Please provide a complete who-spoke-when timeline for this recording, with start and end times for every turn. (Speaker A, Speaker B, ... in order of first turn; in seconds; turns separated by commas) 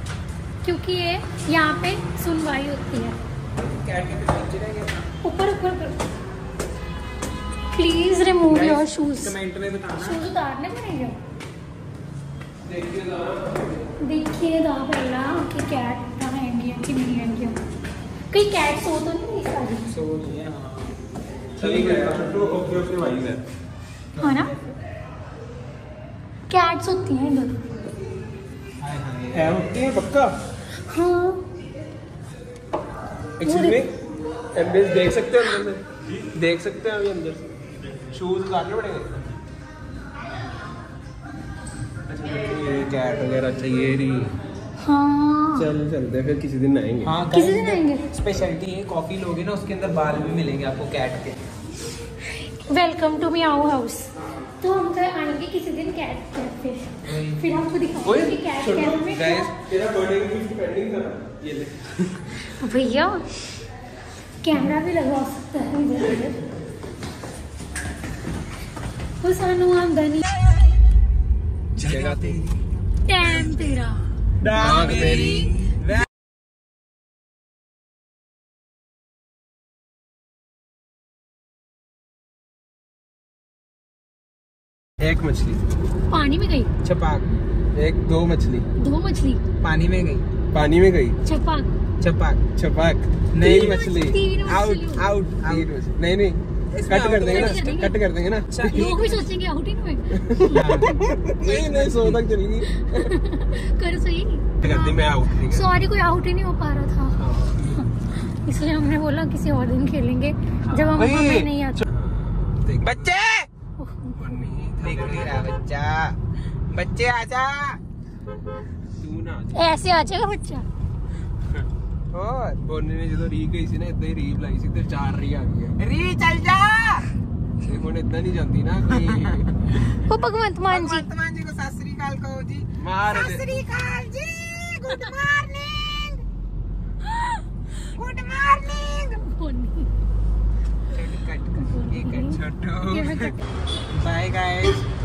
Speaker A: 0.6-3.2, Speaker B: 3.6-5.1, Speaker A: 5.2-6.0, Speaker A: 7.7-9.3, Speaker B: 8.5-10.3, Speaker A: 10.0-11.2, Speaker C: 12.7-13.7, Speaker A: 14.0-17.6, Speaker A: 18.3-19.9, Speaker B: 19.9-21.0, Speaker B: 21.6-22.4, Speaker C: 21.6-23.4, Speaker A: 24.2-24.5, Speaker B: 24.2-24.6, Speaker A: 26.5-27.6, Speaker B: 28.8-29.6, Speaker C: 29.4-30.4, Speaker A: 30.9-31.4, Speaker C: 33.4-33.9, Speaker A: 33.4-33.8, Speaker C: 34.5-37.5, Speaker C: 38.1-39.1, Speaker C: 42.1-44.4, Speaker A: 44.8-45.7, Speaker C: 45.5-47.1, Speaker B: 47.0-51.4, Speaker A: 47.3-48.1, Speaker A: 52.4-59.5, Speaker B: 57.1-57.6, Speaker C: 58.0-62.0, Speaker B: 59.1-59.5, Speaker A: 62.5-63.2, Speaker A: 64.4-66.4, Speaker A: 69.2-70.3, Speaker B: 71.8-72.5, Speaker C: 71.8-72.4, Speaker A: 73.1-74.0, Speaker B: 74.4-76.1, Speaker C: 74.5-75.5, Speaker A: 74.9-75.5, Speaker C: 85.0-85.6, Speaker A: 86.1-86.7, Speaker B: 86.8-87.3, Speaker C: 87.8-88.7, Speaker A: 88.8-89.4, Speaker B: 89.6-90.3, Speaker C: 90.5-91.2, Speaker A: 91.2-91.8, Speaker B: 92.0-92.4, Speaker C: 92.6-94.2, Speaker B: 93.3-93.9, Speaker A: 93.5-95.1, Speaker B: 94.4-95.7, Speaker C: 95.5-99.0, Speaker B: 96.7-97.8, Speaker A: 97.3-98.0, Speaker B: 98.5-99.3, Speaker A: 98.6-101.6, Speaker C: 100.2-103.1, Speaker B: 100.5-100.9, Speaker B: 101.5-102.2, Speaker A: 102.7-111.8, Speaker C: 104.6-105.7, Speaker C: 107.2-107.8, Speaker B: 110.7-111.5, Speaker C: 111.8-113.2, Speaker B: 112.8-113.5, Speaker A: 113.8-114.2, Speaker C: 114.2-115.5, Speaker B: 114.8-116.2, Speaker B: 116.7-117.8, Speaker C: 119.0-119.8, Speaker A: 119.5-120.7, Speaker B: 122.1-122.6, Speaker C: 122.6-125.8, Speaker B: 125.8-127.1, Speaker C: 127.6-129.8, Speaker A: 129.9-131.1, Speaker B: 130.7-136.2, Speaker C: 132.8-133.5, Speaker B: 137.9-139.2, Speaker A: 139.2-139.9, Speaker B: 140.9-143.3, Speaker A: 141.6-143.4, Speaker B: 143.9-144.8